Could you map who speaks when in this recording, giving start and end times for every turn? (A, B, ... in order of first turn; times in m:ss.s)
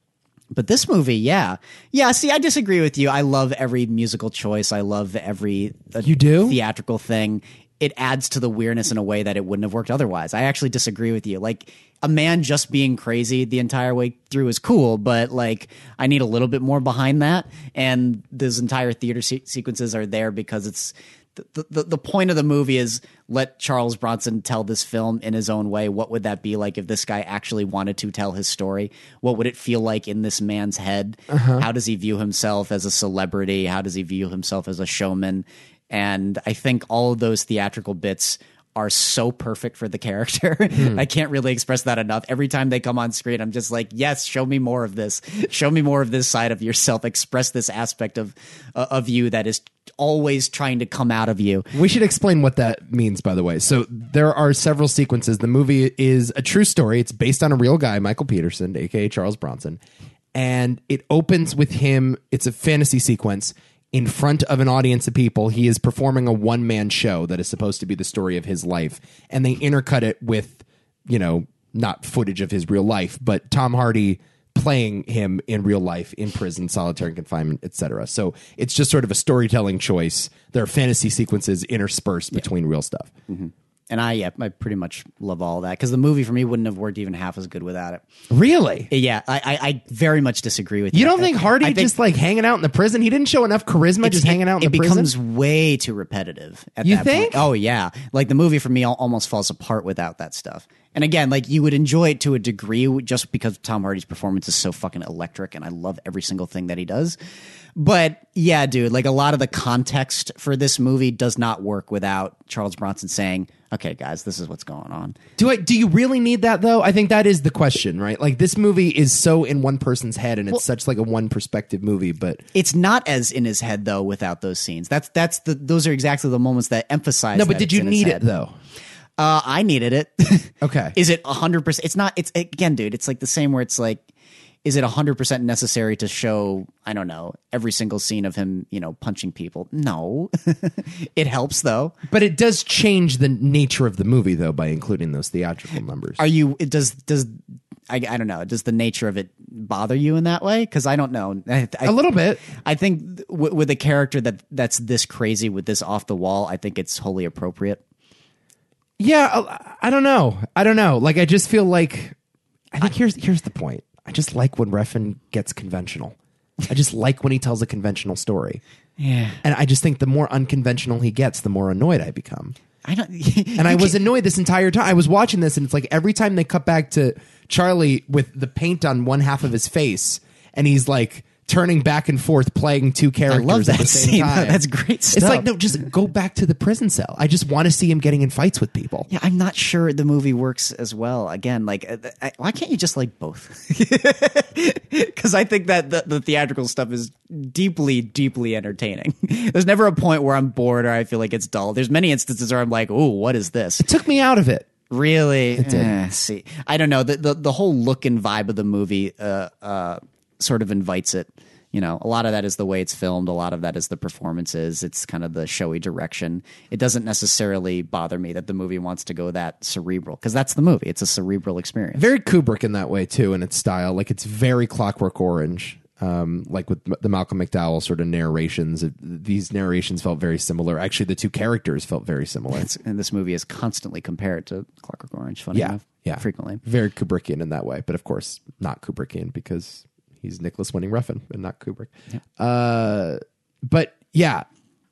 0:00.5-0:51.7 A
0:06.0-0:06.6 B
0:31.3-0:31.6 B
0:40.8-0:41.0 B
0:51.7-0:59.8 B
1:00.3-1:23.1 B
1:23.3-1:28.0 A
1:28.3-1:28.9 B
1:28.9-1:31.9 A
1:30.9-1:35.1 B
1:34.0-1:47.2 A
1:36.8-1:37.5 B
1:47.8-1:55.2 A
1:55.4-2:02.4 B
2:02.5-2:08.2 A
2:07.3-2:08.5 B
2:09.2-2:14.0 A
2:10.6-2:11.0 B
2:14.6-2:22.0 A
2:22.1-2:26.2 B
2:26.2-2:27.4 A
2:27.9-2:32.0 A
2:31.8-2:32.4 B
2:32.5-2:37.8 A
2:39.0-2:42.2 B
2:42.7-2:46.2 B
2:46.7-2:48.6 B
2:49.0-2:49.4 A
2:49.4-2:52.6 B
2:52.8-2:54.0 A
2:53.6-3:04.6 B
3:03.3-3:05.5 A
3:05.1-3:09.1 B
3:09.1-3:23.9 A
3:23.8-3:24.7 B
3:24.9-3:42.1 A
3:25.6-3:26.0 B
3:42.0-3:52.7 B
3:52.5-3:56.6 A
3:55.5-4:04.4 B